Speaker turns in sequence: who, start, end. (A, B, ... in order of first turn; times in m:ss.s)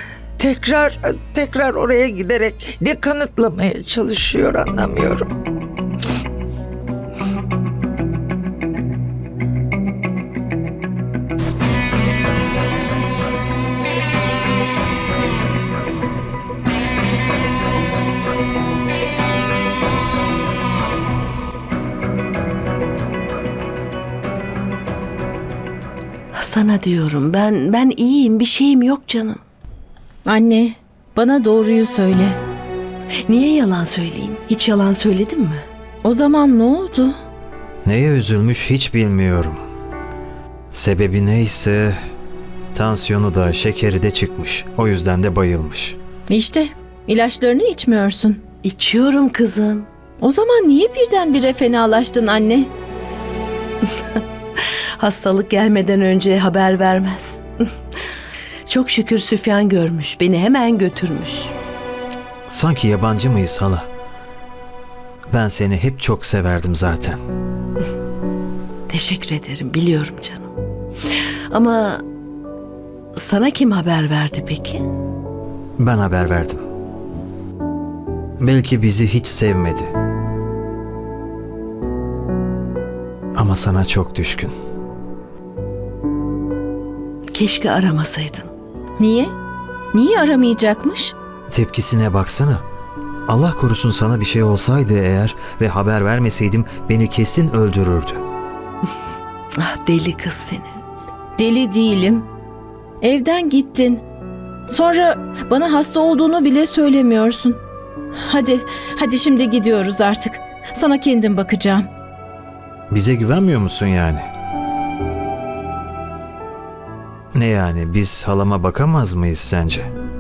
0:00.4-0:05.3 A
0:26.3-0:29.4 B
0:30.2-0:32.4 C
0:33.3-0:35.6 B
0:36.0-0:37.1 C
0:37.8-0:39.6 D
0:40.7-0:42.0 D
0:42.7-0:46.0 D
0:46.3-0:48.4 C
0:48.6-0:49.9 B
0:50.2-0:52.7 C
0:53.8-0:57.6 B
0:58.7-1:01.5 B
1:02.5-1:03.8 D
1:05.3-1:07.2 D
1:08.9-1:10.5 B
1:11.5-1:12.0 B
1:13.2-1:14.8 B
1:15.8-1:16.6 D
1:18.4-1:19.9 D
1:23.3-1:24.5 D
1:27.3-1:28.5 B
1:29.0-1:29.3 C
1:29.9-1:31.1 C
1:31.5-1:32.6 D
1:33.3-1:38.2 D
1:39.6-1:40.8 B
1:41.4-1:42.3 C
1:43.0-1:44.0 C
1:44.7-1:47.6 C
1:48.2-1:51.9 C
1:52.9-1:54.2 D
1:57.3-1:59.9 D